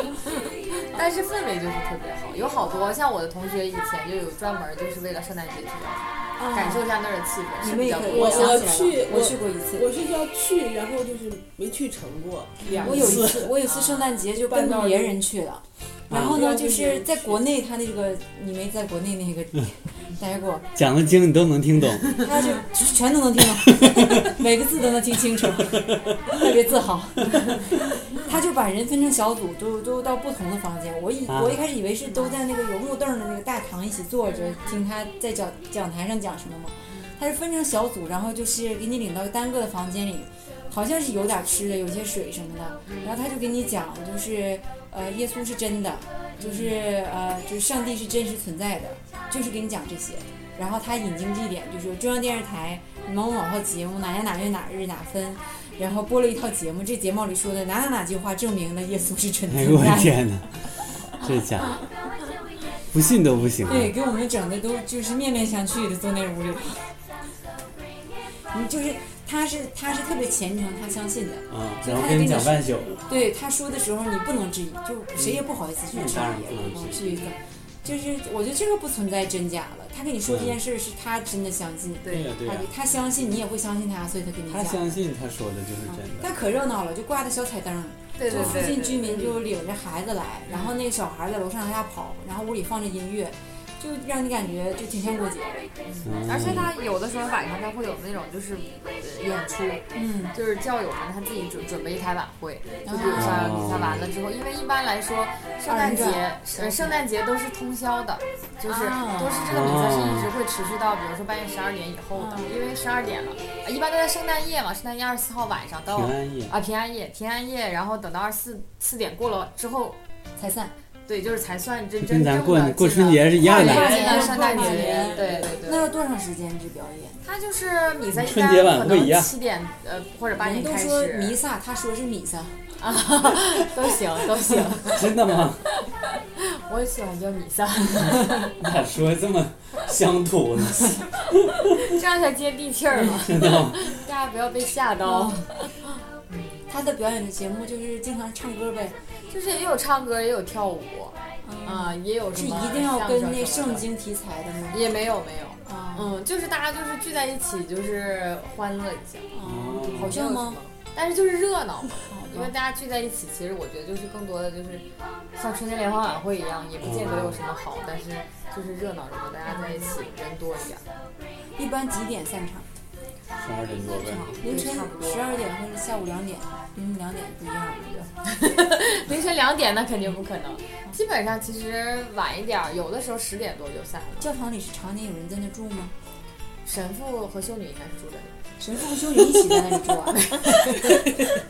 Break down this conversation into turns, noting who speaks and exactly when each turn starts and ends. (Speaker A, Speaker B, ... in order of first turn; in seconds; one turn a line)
Speaker A: 0.8-8.7
Speaker B: 6.4-6.9
Speaker B: 7.6-9.9
Speaker C: 8.1-13.6
Speaker A: 12.7-14.1
Speaker B: 12.8-20.7
Speaker C: 14.3-15.2
Speaker D: 16.1-16.4
Speaker C: 16.1-17.4
Speaker D: 20.8-22.2
Speaker B: 22.2-60.2
Speaker D: 23.7-24.4
Speaker D: 25.6-26.2
Speaker D: 31.3-31.6
Speaker A: 34.5-34.8
Speaker A: 36.9-37.1
Speaker A: 42.9-43.2
Speaker A: 46.4-46.8
Speaker D: 59.5-60.5
Speaker D: 61.1-61.8
Speaker D: 62.9-63.9
Speaker B: 63.7-67.0
Speaker B: 68.5-84.8
Speaker D: 71.5-73.0
Speaker D: 75.2-77.2
Speaker D: 80.3-80.6
Speaker A: 82.0-82.3
Speaker D: 82.1-82.7
Speaker D: 84.5-86.3
Speaker B: 85.9-95.7
Speaker A: 88.2-89.4
Speaker D: 88.3-88.7
Speaker A: 90.5-90.8
Speaker A: 95.9-120.0
Speaker D: 96.0-96.7
Speaker B: 99.9-100.3
Speaker B: 102.8-103.4
Speaker D: 103.1-104.0
Speaker B: 105.7-107.0
Speaker B: 108.7-109.7
Speaker D: 109.5-110.3
Speaker B: 112.2-112.5
Speaker D: 115.9-116.5
Speaker B: 120.4-120.7
Speaker A: 121.1-125.9
Speaker D: 122.0-124.0
Speaker B: 123.4-127.2
Speaker C: 123.5-125.5
Speaker A: 127.2-131.4
Speaker D: 128.1-129.3
Speaker B: 130.4-132.6
Speaker A: 132.8-135.1
Speaker D: 134.9-135.6
Speaker A: 136.4-138.4
Speaker D: 138.6-141.1
Speaker A: 141.6-145.7
Speaker D: 143.2-144.0
Speaker B: 145.1-145.5
Speaker A: 146.3-146.7
Speaker B: 146.7-149.0
Speaker A: 149.3-153.8
Speaker B: 151.4-154.8
Speaker A: 154.7-159.3
Speaker B: 155.7-156.2
Speaker B: 159.3-160.6
Speaker D: 159.4-160.1
Speaker A: 159.9-170.8
Speaker B: 162.1-162.5
Speaker D: 166.8-167.4
Speaker B: 169.5-169.9
Speaker B: 171.6-172.7
Speaker D: 173.4-174.3
Speaker A: 173.8-175.5
Speaker B: 174.4-178.1
Speaker A: 178.3-184.3
Speaker B: 184.2-185.9
Speaker A: 186.7-188.4
Speaker B: 188.6-190.4
Speaker A: 190.2-191.0